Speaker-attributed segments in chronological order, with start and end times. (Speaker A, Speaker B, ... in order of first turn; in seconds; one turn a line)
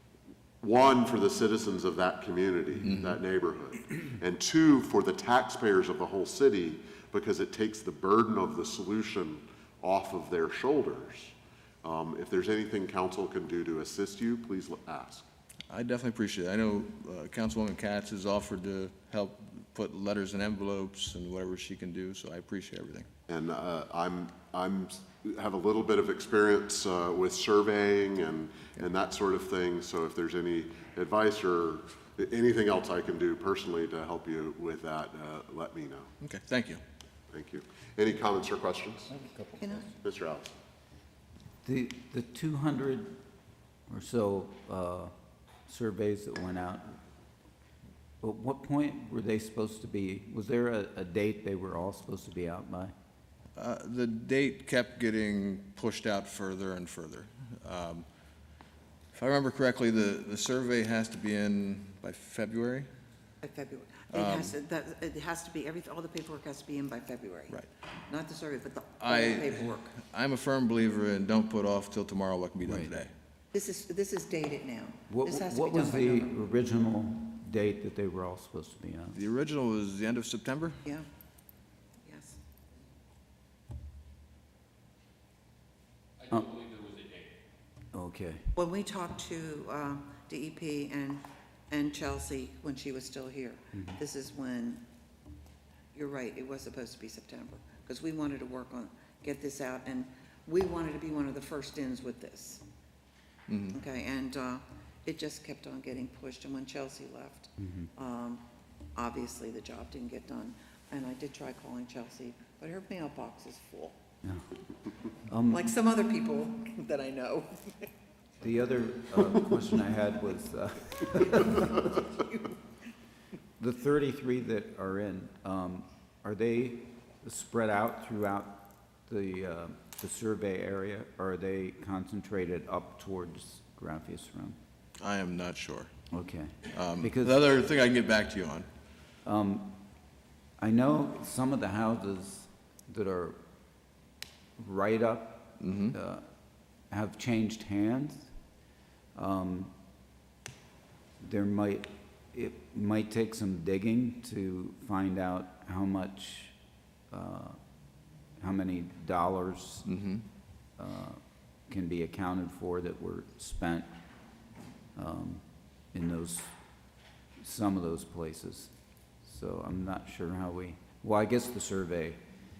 Speaker A: 0.6-15.3
Speaker B: 2.9-3.2
Speaker B: 15.7-23.1
Speaker A: 23.3-36.1
Speaker B: 36.2-36.8
Speaker A: 37.3-39.3
Speaker C: 39.6-39.9
Speaker A: 40.0-40.5
Speaker D: 41.6-43.2
Speaker D: 43.9-45.1
Speaker D: 45.7-47.0
Speaker D: 48.2-52.9
Speaker B: 53.5-58.1
Speaker B: 59.1-62.9
Speaker C: 63.4-67.6
Speaker B: 64.1-64.6
Speaker C: 68.1-70.0
Speaker B: 69.0-73.1
Speaker D: 72.7-72.9
Speaker C: 73.5-76.4
Speaker D: 75.1-79.2
Speaker B: 79.1-80.8
Speaker C: 82.1-82.4
Speaker D: 86.3-86.8
Speaker D: 87.9-88.5
Speaker C: 88.5-94.8
Speaker D: 93.7-94.0
Speaker C: 95.9-102.6
Speaker B: 103.5-103.8
Speaker C: 103.7-108.4
Speaker D: 107.6-107.9
Speaker C: 109.0-114.0
Speaker D: 115.3-115.7
Speaker C: 115.5-117.9
Speaker D: 118.4-122.2
Speaker D: 123.6-134.6
Speaker B: 135.0-135.9
Speaker D: 136.1-137.4
Speaker B: 136.7-138.7
Speaker D: 139.2-139.8
Speaker D: 140.6-143.4
Speaker D: 144.6-146.3
Speaker B: 145.6-145.9
Speaker D: 146.9-148.3
Speaker D: 149.2-149.7
Speaker D: 151.2-156.6
Speaker D: 157.1-157.6
Speaker D: 158.4-159.9
Speaker B: 159.9-160.2
Speaker D: 160.8-163.9
Speaker D: 164.9-166.5
Speaker D: 167.4-172.2